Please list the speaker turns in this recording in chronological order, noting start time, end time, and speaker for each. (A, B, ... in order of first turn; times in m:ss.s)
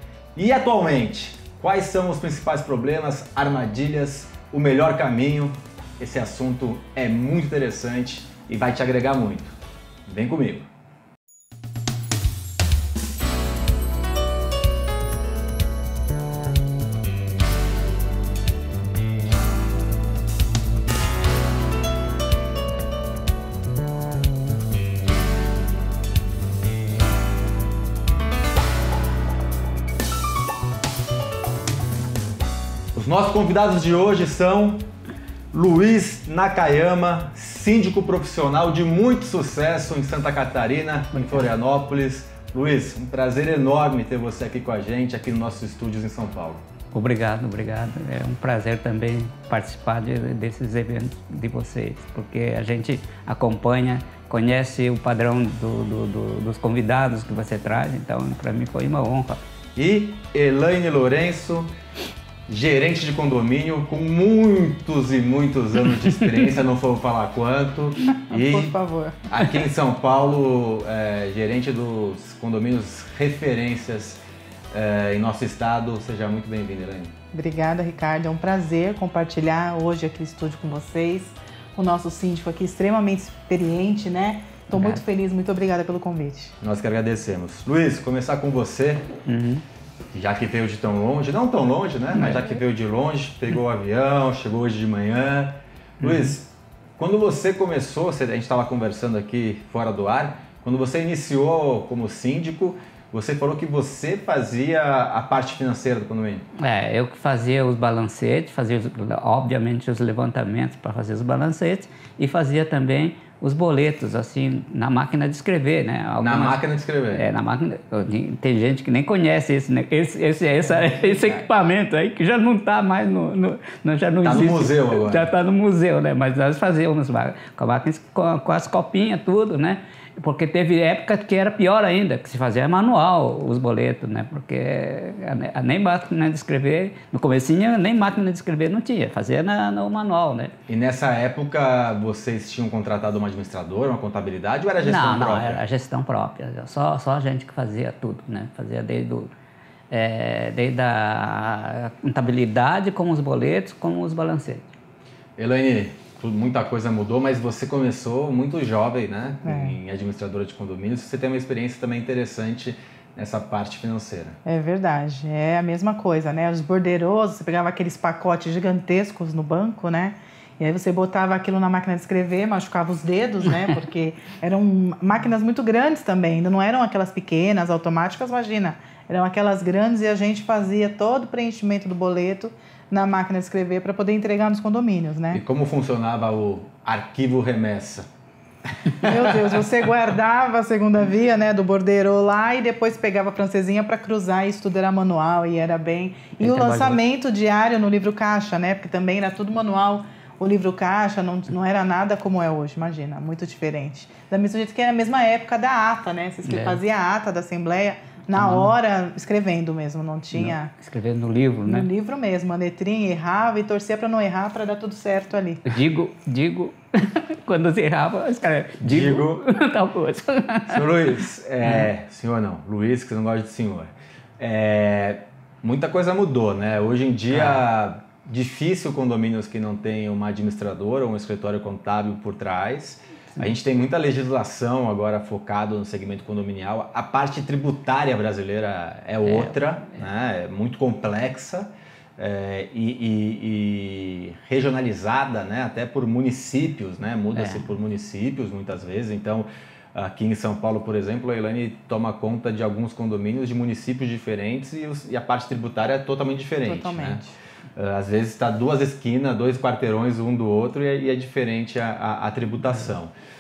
0:00.4-0:09.5 A
0:10.1-0:10.7 A
0:32.9-0:34.9 A
0:35.5-0:46.6 A
0:41.2-0:41.5 B
0:46.9-0:59.4 B
0:59.8-1:01.7 A
1:02.5-1:08.7 A
1:06.1-1:06.4 B
1:08.3-1:09.2 C
1:09.3-1:14.2 A
1:14.7-1:17.1 A
1:17.3-1:26.5 C
1:24.7-1:25.0 B
1:26.6-1:29.0 A
1:29.3-1:29.6 B
1:30.1-1:46.4 A
1:32.1-1:32.5 B
1:36.0-1:36.3 B
1:46.6-1:56.6 B
1:56.2-1:57.3 A
1:57.1-2:20.5 B
2:04.2-2:05.3 A
2:20.7-2:25.6 A
2:24.8-2:29.3 B
2:29.9-2:34.6 B
2:35.4-2:44.4 A
2:39.4-2:39.8 C
2:44.4-3:05.4 C
3:05.3-3:08.1 A
3:08.9-3:09.2 A
3:09.0-3:30.7 C
3:16.4-3:17.0 B
3:26.4-3:26.8 B
3:28.3-3:28.7 B
3:30.3-3:31.9 B
3:31.6-3:35.6 C
3:35.7-3:40.9 B
3:38.8-3:39.4 A
3:40.7-4:17.2 A
3:41.6-3:41.9 B
3:47.3-3:47.6 B
3:59.2-4:00.0 B
4:07.3-4:07.8 B
4:16.6-4:17.3 C
4:17.8-4:23.1 A